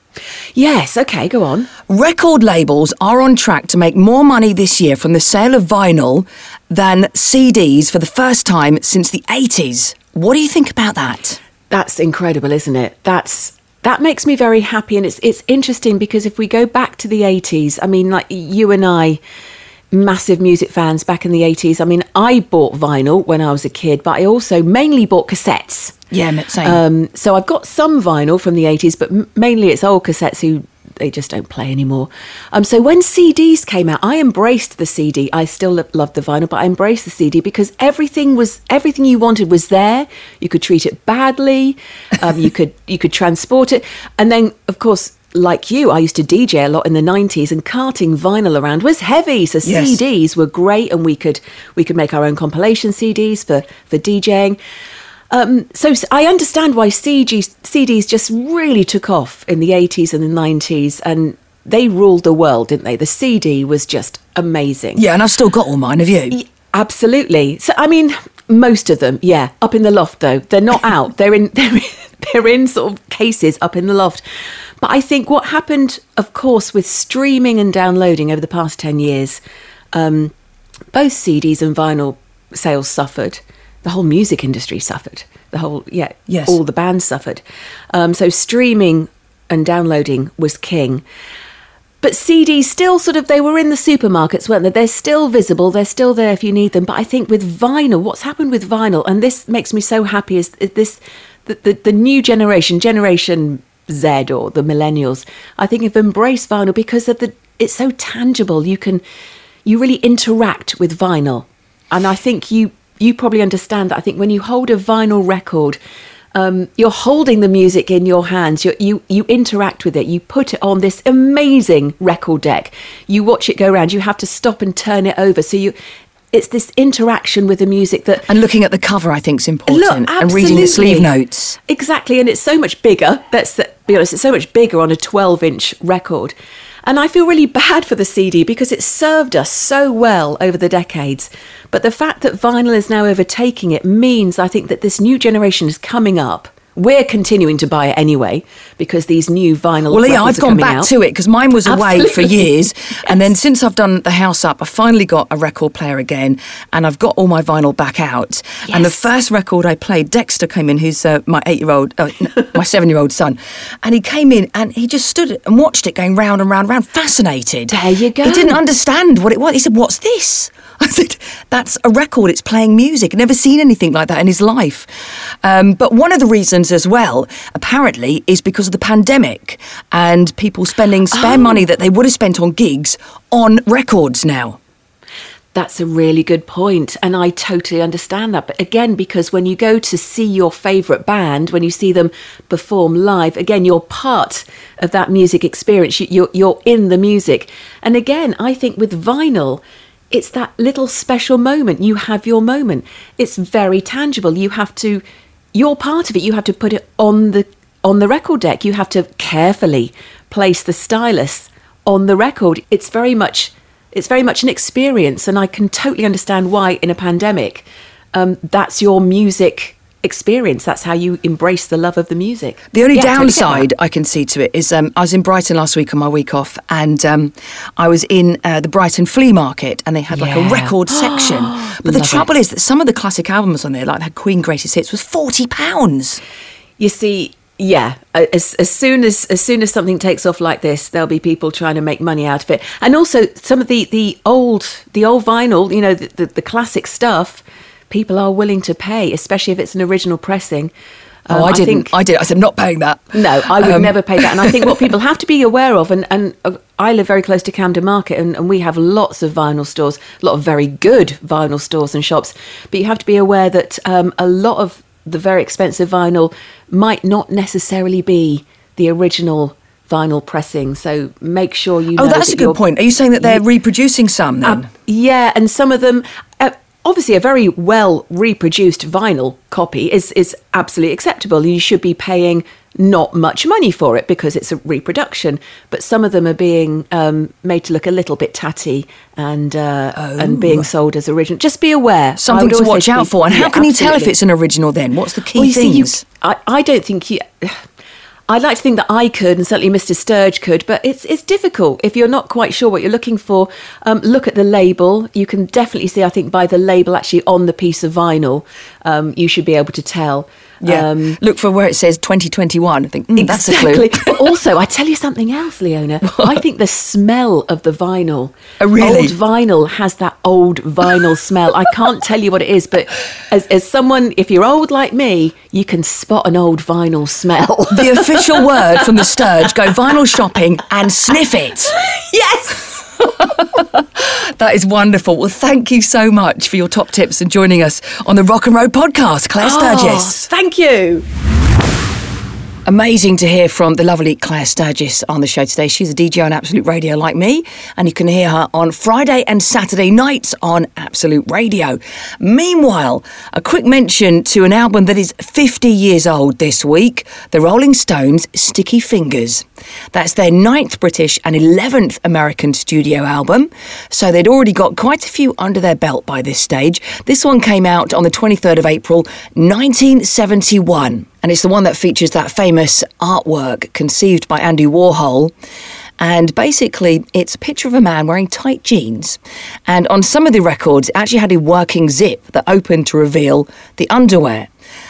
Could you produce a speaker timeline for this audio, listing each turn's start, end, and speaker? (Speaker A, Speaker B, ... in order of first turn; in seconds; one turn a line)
Speaker A: 0.5-1.7
Speaker B: 1.9-11.4
Speaker A: 11.7-19.2
Speaker A: 19.9-26.0
Speaker B: 26.1-26.8
Speaker A: 26.6-54.6
Speaker B: 49.6-50.0
Speaker A: 55.3-65.0
Speaker B: 65.0-66.4
Speaker A: 66.3-74.2
Speaker A: 74.8-79.4
Speaker A: 79.9-80.3
Speaker A: 80.9-91.0
Speaker B: 86.3-86.6
Speaker A: 92.0-109.0
Speaker A: 109.6-115.8
Speaker A: 116.3-125.7
Speaker A: 126.3-128.3
Speaker B: 128.3-131.6
Speaker A: 129.7-131.1
Speaker A: 131.7-136.3
Speaker A: 136.8-150.9
Speaker B: 149.9-174.9
Speaker A: 151.7-152.5
Speaker A: 158.7-159.0
Speaker A: 167.7-168.6
Speaker B: 175.4-184.6
Speaker A: 181.1-181.6
Speaker A: 185.5-223.7
Speaker B: 222.7-236.2
Speaker A: 230.1-232.2
Speaker A: 236.8-250.7
Speaker A: 251.3-251.9
Speaker B: 251.3-254.8
Speaker A: 253.1-272.6
Speaker B: 272.0-274.7
Speaker A: 274.4-294.1
Speaker B: 289.9-290.7
Speaker B: 292.2-296.0
Speaker A: 295.3-297.6
Speaker A: 298.3-311.2
Speaker B: 310.6-314.2
Speaker A: 313.1-328.8
Speaker B: 316.0-316.4
Speaker B: 318.6-319.1
Speaker B: 327.7-331.7
Speaker A: 331.8-332.8
Speaker B: 333.2-340.3
Speaker A: 339.4-341.0
Speaker B: 342.6-375.3
Speaker B: 376.0-384.5